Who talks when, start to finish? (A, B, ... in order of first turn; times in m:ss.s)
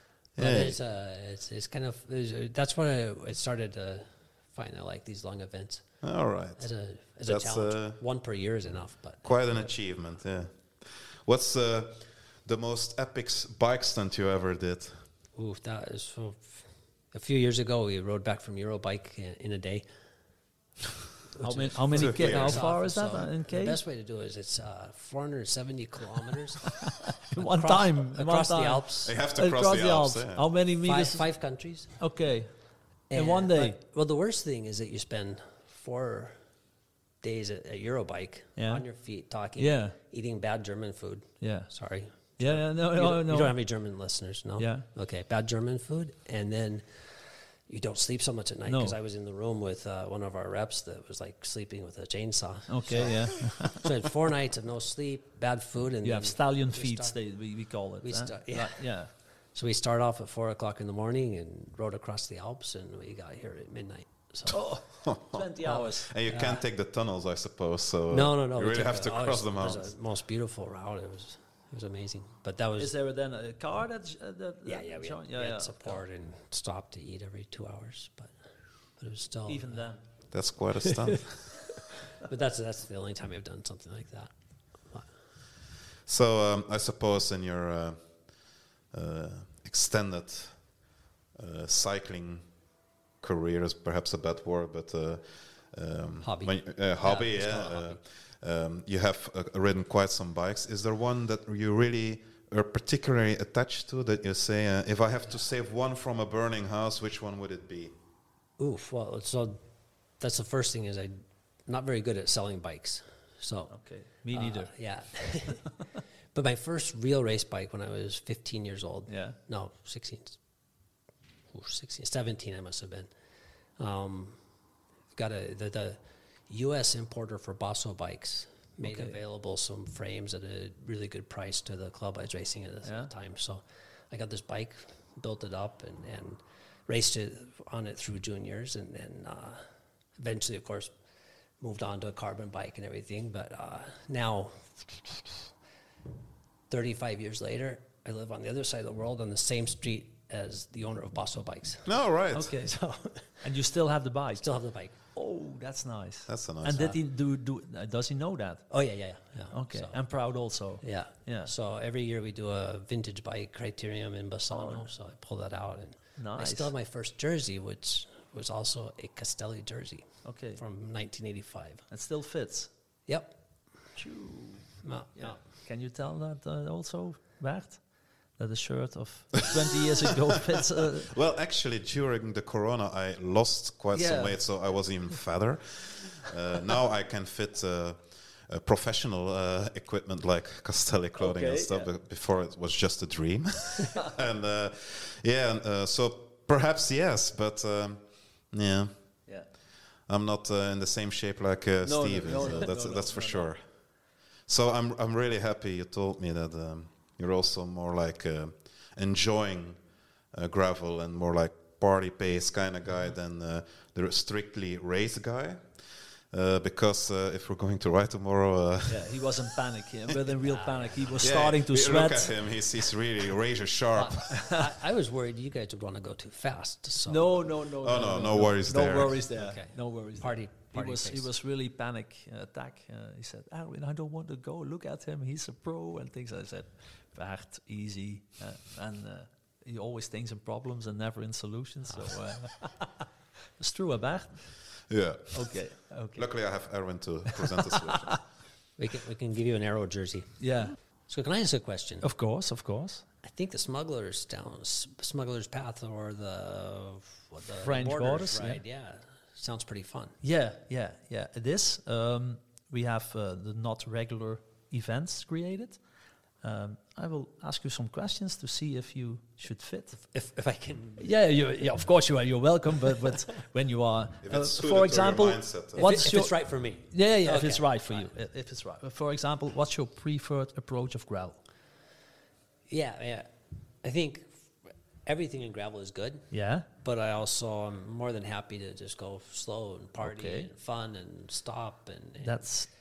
0:00.4-0:00.8 A
0:00.4-0:05.9 B
0:06.0-0:06.7 A
0:06.6-0:09.7 B
0:07.2-0:08.0 A
0:09.2-0:15.0 A
0:15.4-0:19.8 B
0:21.3-0:26.8 B
0:21.4-0:23.8 C
0:21.9-0:22.6 A
0:26.9-0:31.2 C
0:27.3-0:29.1 B
0:29.0-0:30.5 A
0:30.8-0:31.9 B
0:32.0-0:32.5 C
0:33.1-0:36.4 B
0:33.1-0:33.8 C
0:37.2-0:57.2 B
0:38.6-0:38.8 C
0:39.6-0:39.9 C
0:41.4-0:41.7 C
0:42.4-0:43.6 C
0:44.6-0:44.8 C
0:48.7-0:48.9 C
0:52.7-0:53.9 C
0:56.0-0:59.1 C
0:58.0-0:58.9 B
0:59.5-1:04.6 B
1:04.5-1:06.1 C
1:05.0-1:09.9 A
1:05.6-1:06.6 B
1:08.1-1:12.9 B
1:12.8-1:16.0 C
1:14.6-1:18.3 B
1:19.0-1:19.8 B
1:19.5-1:20.0 C
1:20.3-1:21.7 A
1:20.9-1:24.3 B
1:26.0-1:30.7 A
1:31.3-1:32.5 A
1:33.2-1:47.9 A
1:36.2-1:38.0 B
1:48.6-1:49.6 B
1:50.2-1:51.1 B
1:51.6-1:53.7 B
1:53.7-1:54.8 C
1:54.3-1:55.7 B
1:56.3-2:00.4 B
1:59.1-1:59.4 C
2:01.5-2:03.1 B
2:03.8-2:04.4 B
2:05.1-2:19.6 B
2:08.8-2:09.1 C
2:12.8-2:13.1 C
2:20.2-2:20.9 B
2:21.6-2:25.5 B
2:26.7-2:33.4 B
2:31.8-2:32.6 A
2:32.3-2:32.8 C
2:33.3-2:34.4 C
2:34.4-2:35.0 B
2:35.1-2:38.7 C
2:36.3-2:37.0 A
2:38.7-2:40.0 B
2:39.5-2:41.5 C
2:40.8-2:51.8 B
2:44.5-2:44.9 C
2:46.2-2:46.7 C
2:50.2-2:50.6 C
2:51.9-2:52.7 C
2:53.1-2:53.3 B
2:54.0-2:57.8 C
2:54.8-2:55.4 B
2:58.4-3:01.1 C
3:01.0-3:18.9 A
3:03.9-3:04.4 C
3:11.2-3:11.9 C
3:20.1-3:23.6 A
3:21.8-3:23.5 C
3:24.5-3:29.8 A
3:30.3-3:35.8 A
3:36.3-3:39.4 A
3:38.9-3:42.3 C
3:40.4-3:41.1 B
3:41.2-3:44.3 A
3:44.0-3:47.3 B
3:44.3-3:44.6 C
3:47.1-4:03.0 C
3:47.8-3:49.2 A
3:49.3-3:51.3 B
4:03.6-4:04.4 C
4:04.9-4:05.6 A
4:05.3-4:06.3 C
4:06.2-4:08.2 A
4:07.3-4:08.2 C
4:08.8-4:10.4 B
4:10.4-4:10.7 C
4:11.1-4:12.1 B
4:12.0-4:13.0 C
4:13.2-4:20.2 B
4:17.6-4:18.6 C
4:20.2-4:25.8 C
4:26.4-4:29.9 C
4:29.9-4:31.1 B
4:31.0-4:41.4 C
4:34.2-4:36.0 A
4:35.8-4:38.1 B
4:42.7-4:44.5 B
4:45.0-4:46.2 B
4:46.3-4:46.7 C
4:46.8-4:52.4 B
4:50.0-4:50.5 C
4:52.2-4:52.7 C